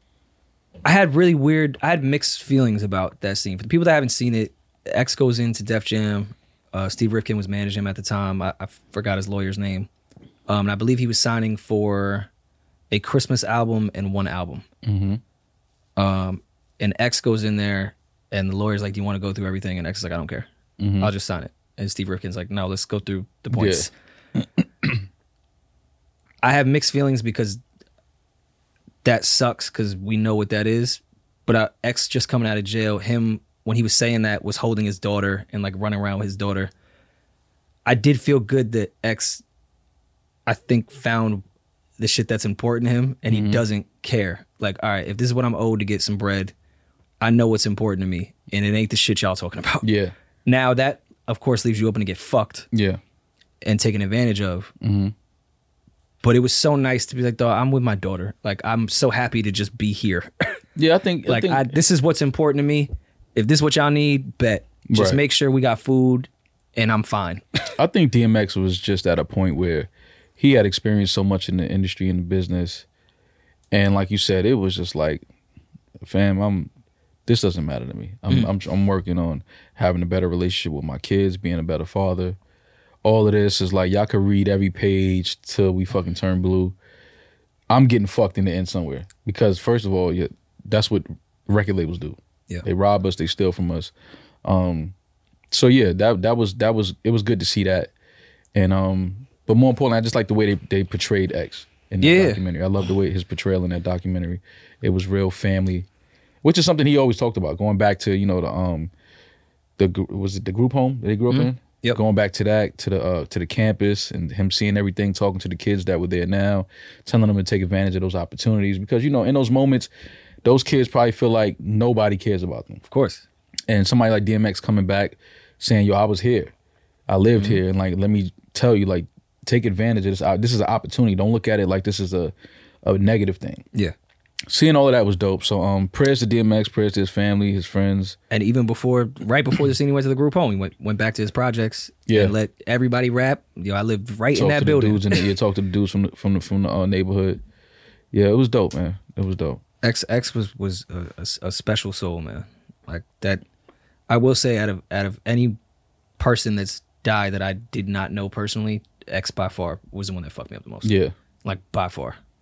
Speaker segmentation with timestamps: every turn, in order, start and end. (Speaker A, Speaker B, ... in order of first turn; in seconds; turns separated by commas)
Speaker A: 0.8-9.9, Speaker A: 10.5-12.3, Speaker A: 12.9-14.6, Speaker B: 14.8-15.2, Speaker A: 16.0-20.5, Speaker B: 20.8-21.1, Speaker A: 21.0-23.9, Speaker B: 23.5-25.0, Speaker A: 26.4-27.6, Speaker A: 29.0-36.7, Speaker A: 37.9-39.4, Speaker A: 40.5-41.4, Speaker A: 42.0-46.5, Speaker B: 43.3-43.6, Speaker A: 47.2-49.9, Speaker B: 49.8-50.1, Speaker A: 50.5-52.7, Speaker B: 52.7-53.0, Speaker A: 53.6-54.7, Speaker B: 54.8-55.1, Speaker A: 56.2-60.5, Speaker B: 60.8-61.7, Speaker A: 61.3-67.4, Speaker B: 64.9-65.2, Speaker B: 67.8-72.8, Speaker B: 73.7-75.2, Speaker B: 76.0-76.7, Speaker B: 77.3-82.4, Speaker B: 83.0-86.7, Speaker B: 87.7-93.9, Speaker B: 94.4-94.9, Speaker B: 95.5-97.9, Speaker B: 98.5-105.9, Speaker A: 102.0-102.4, Speaker B: 106.4-108.9, Speaker B: 109.8-119.9, Speaker A: 111.3-112.0, Speaker B: 120.4-122.8, Speaker A: 122.9-123.2, Speaker B: 123.7-126.5, Speaker B: 127.1-133.6, Speaker B: 134.5-138.2, Speaker A: 138.3-145.2, Speaker B: 142.1-142.3, Speaker B: 144.3-147.4, Speaker B: 148.1-149.6, Speaker A: 149.8-153.4, Speaker A: 154.1-155.6, Speaker A: 156.2-160.9, Speaker B: 160.8-161.1, Speaker A: 161.4-162.2